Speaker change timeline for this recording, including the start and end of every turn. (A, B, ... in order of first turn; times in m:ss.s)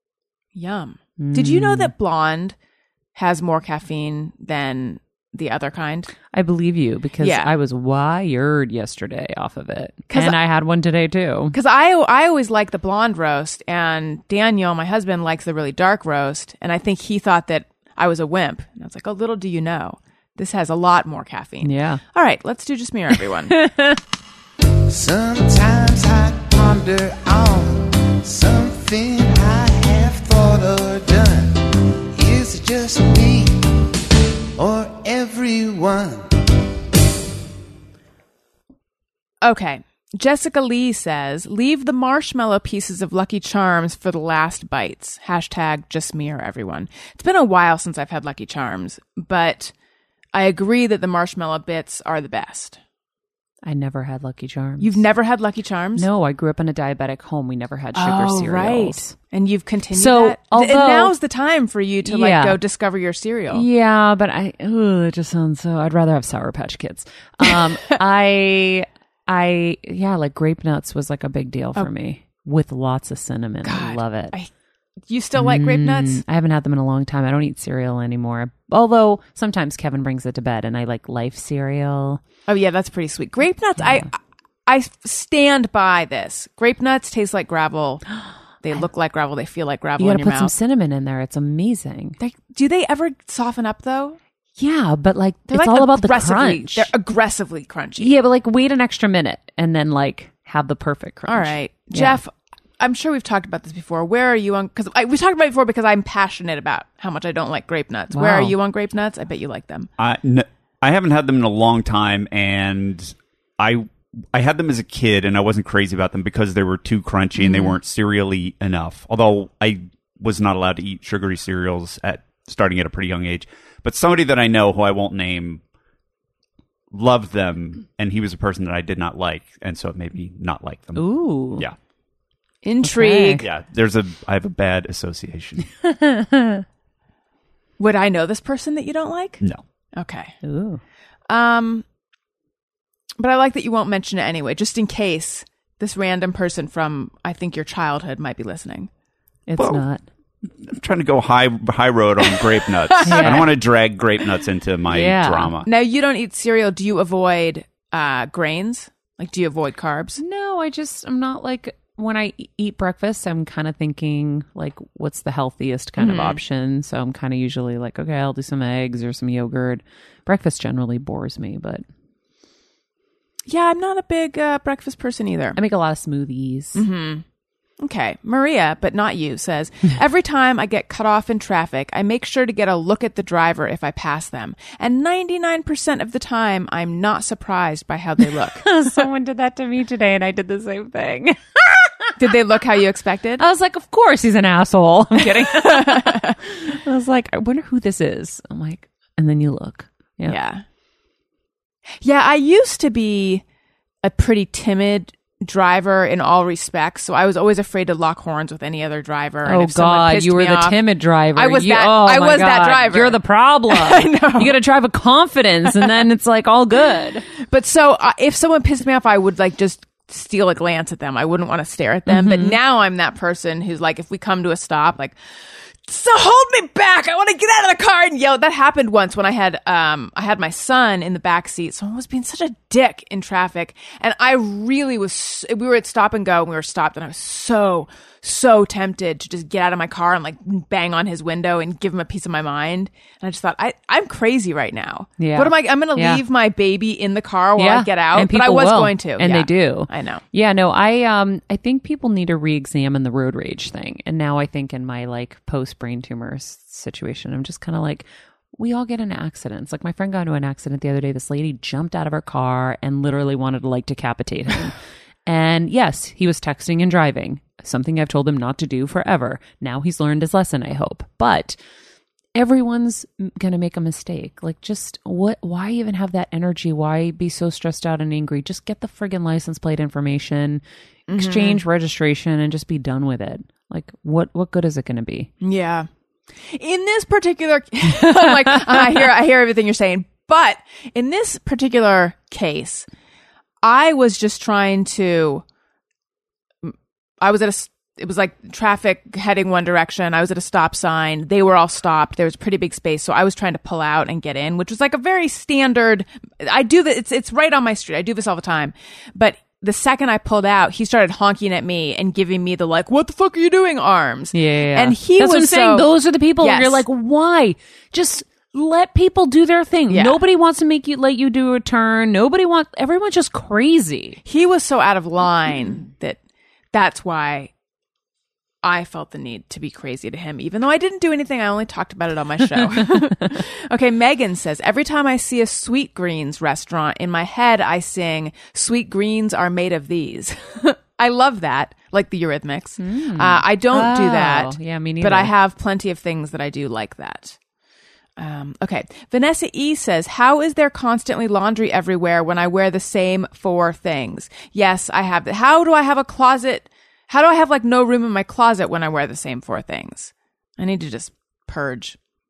0:00.5-0:02.6 A
0:01.2-0:01.9 B
0:03.1-0:06.1 A
0:06.3-0:11.6 B
0:07.2-0:07.5 A
0:10.1-0:10.4 A
0:11.5-0:23.6 A
0:21.6-0:22.0 B
0:23.5-0:24.0 B
0:24.9-0:33.7 C
0:34.6-0:36.3 C
0:39.4-0:49.7 A
0:50.3-0:52.8 A
0:53.6-0:55.0 B
0:54.8-0:56.1 A
0:56.0-0:59.1 B
0:57.9-1:03.6 A
0:59.9-1:01.1 B
1:02.0-1:02.6 B
1:03.5-1:14.4 B
1:07.4-1:08.0 A
1:13.6-1:14.5 A
1:15.1-1:16.2 A
1:15.4-1:22.2 B
1:22.5-1:28.0 A
1:23.8-1:24.0 B
1:28.6-1:30.5 A
1:30.0-1:32.2 B
1:32.2-1:34.2 A
1:34.6-1:36.9 B
1:35.5-1:38.1 A
1:38.0-1:42.2 B
1:41.3-1:49.9 A
1:48.1-1:48.5 B
1:50.0-2:05.6 D
1:57.4-1:57.8 A
2:06.9-2:11.8 D
2:11.0-2:11.7 B
2:12.6-2:13.4 A
2:12.8-2:13.4 B
2:13.4-2:15.8 D
2:15.8-2:16.6 B
2:17.8-2:19.4 A
2:19.9-2:20.3 A
2:20.4-2:20.8 B
2:21.3-2:21.8 A
2:23.2-2:28.9 A
2:29.5-2:30.0 B
2:29.6-2:29.8 D
2:30.6-2:35.7 D
2:32.9-2:33.5 A
2:33.0-2:33.5 B
2:34.9-2:35.5 B
2:35.6-2:40.2 A
2:40.2-2:51.8 B
2:46.0-2:46.4 A
2:53.5-2:55.6 A
2:55.5-2:56.8 B
2:56.8-2:57.2 A
2:57.8-3:09.0 A
3:08.5-3:12.2 B
3:12.2-3:13.4 A
3:13.4-3:20.4 B
3:15.4-3:16.4 A
3:20.2-3:20.6 A
3:22.0-3:23.4 A
3:24.0-3:30.8 A
3:29.4-3:37.2 B
3:31.3-3:34.6 A
3:37.4-4:10.2 A
3:42.1-3:42.6 B
4:05.2-4:06.2 B
4:07.6-4:24.7 B
4:25.2-4:31.6 B
4:32.3-4:40.6 B
4:41.1-4:41.6 A
4:41.1-4:45.3 B
4:45.4-4:45.9 A
4:46.4-4:52.8 A
4:48.2-4:48.9 B
4:53.6-4:55.4 A
4:56.6-5:15.9 A
5:14.3-5:24.2 B
5:16.4-5:16.8 A
5:19.9-5:20.2 A
5:24.2-5:26.2 A
5:26.7-5:27.5 A
5:28.6-5:47.4 A
5:42.8-5:45.3 B
5:48.2-6:02.0 A